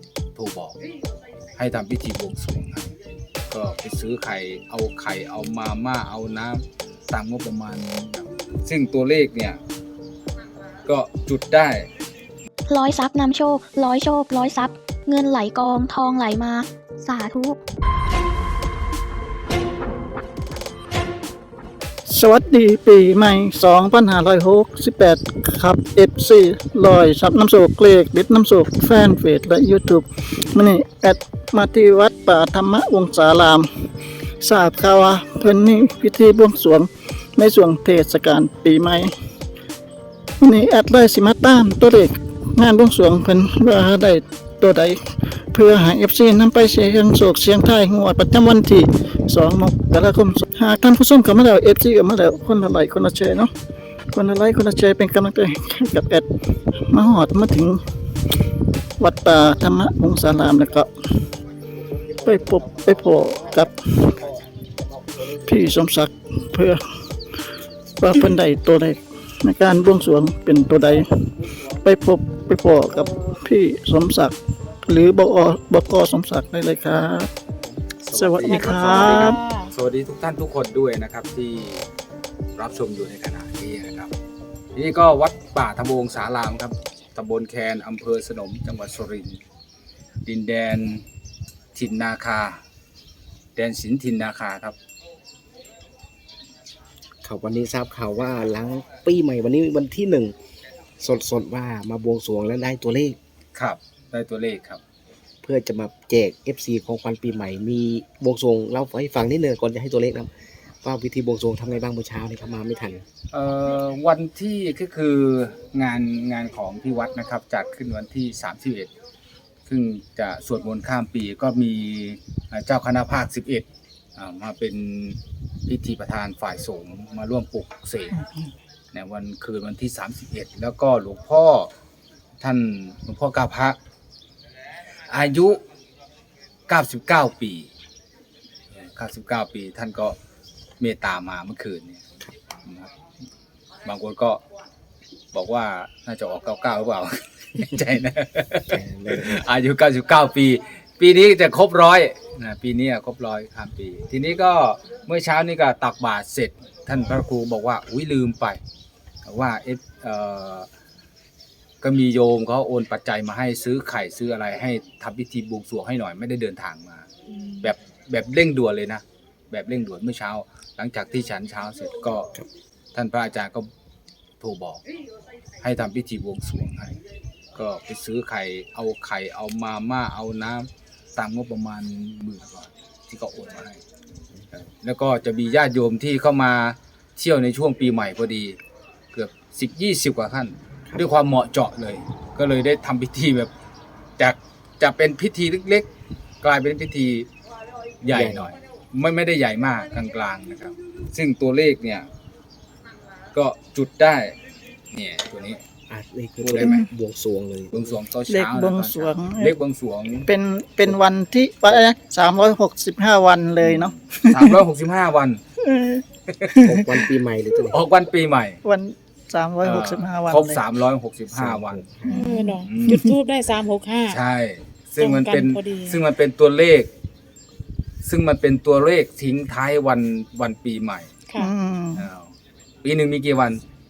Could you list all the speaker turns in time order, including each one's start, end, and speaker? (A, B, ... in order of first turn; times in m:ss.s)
0:00.4-0:00.8 A
0:01.6-0:02.9 A
0:03.5-0:09.6 A
0:10.8-0:11.9 A
0:12.7-0:17.6 B
0:22.1-0:33.7 C
0:34.4-0:39.1 C
0:40.4-0:53.5 C
0:54.1-0:57.8 C
0:59.0-1:00.9 C
1:02.2-1:04.2 C
1:05.4-1:06.8 C
1:08.0-1:17.3 C
1:18.1-1:19.4 C
1:18.1-1:21.8 A
1:18.4-1:19.7 D
1:22.6-1:24.1 A
1:24.7-1:29.4 A
1:30.2-1:31.0 A
1:31.7-1:32.6 A
1:33.6-1:34.8 A
1:37.2-1:40.3 E
1:41.0-1:43.2 E
1:43.5-1:44.8 A
1:45.4-1:50.3 E
1:50.8-1:53.0 E
1:53.3-1:58.9 A
1:59.6-2:03.6 A
2:04.2-2:08.1 A
2:08.1-2:08.5 C
2:08.9-2:11.7 A
2:12.4-2:13.8 A
2:15.0-2:15.6 A
2:16.7-2:17.7 A
2:18.8-2:20.2 A
2:20.8-2:22.0 A
2:22.6-2:22.9 A
2:23.8-2:24.4 A
2:25.3-2:38.6 A
2:28.7-2:29.4 E
2:39.2-2:40.7 A
2:41.8-2:47.1 A
2:47.6-2:52.3 A
2:52.9-2:53.7 A
2:54.4-2:54.8 A
2:55.6-2:57.0 A
2:57.5-3:03.8 A
3:04.5-3:08.6 A
3:09.1-3:13.5 A
3:14.2-3:15.9 A
3:16.4-3:17.3 A
3:18.0-3:22.1 A
3:18.1-3:18.5 E
3:23.3-3:24.4 A
3:24.9-3:25.6 A
3:25.9-3:28.0 E
3:26.4-3:26.8 A
3:27.7-3:30.3 A
3:28.3-3:29.5 C
3:30.2-3:34.6 C
3:33.7-3:35.4 A
3:35.6-3:36.9 C
3:36.3-3:36.5 A
3:36.6-3:37.8 E
3:37.7-3:38.6 A
3:38.6-3:40.6 C
3:39.6-3:41.9 A
3:41.3-3:42.3 E
3:42.1-3:43.1 C
3:42.1-3:44.2 D
3:42.6-3:43.0 A
3:44.1-3:46.9 A
3:45.0-3:46.0 D
3:48.0-3:51.1 A
3:51.4-3:52.0 C
3:52.0-3:53.6 A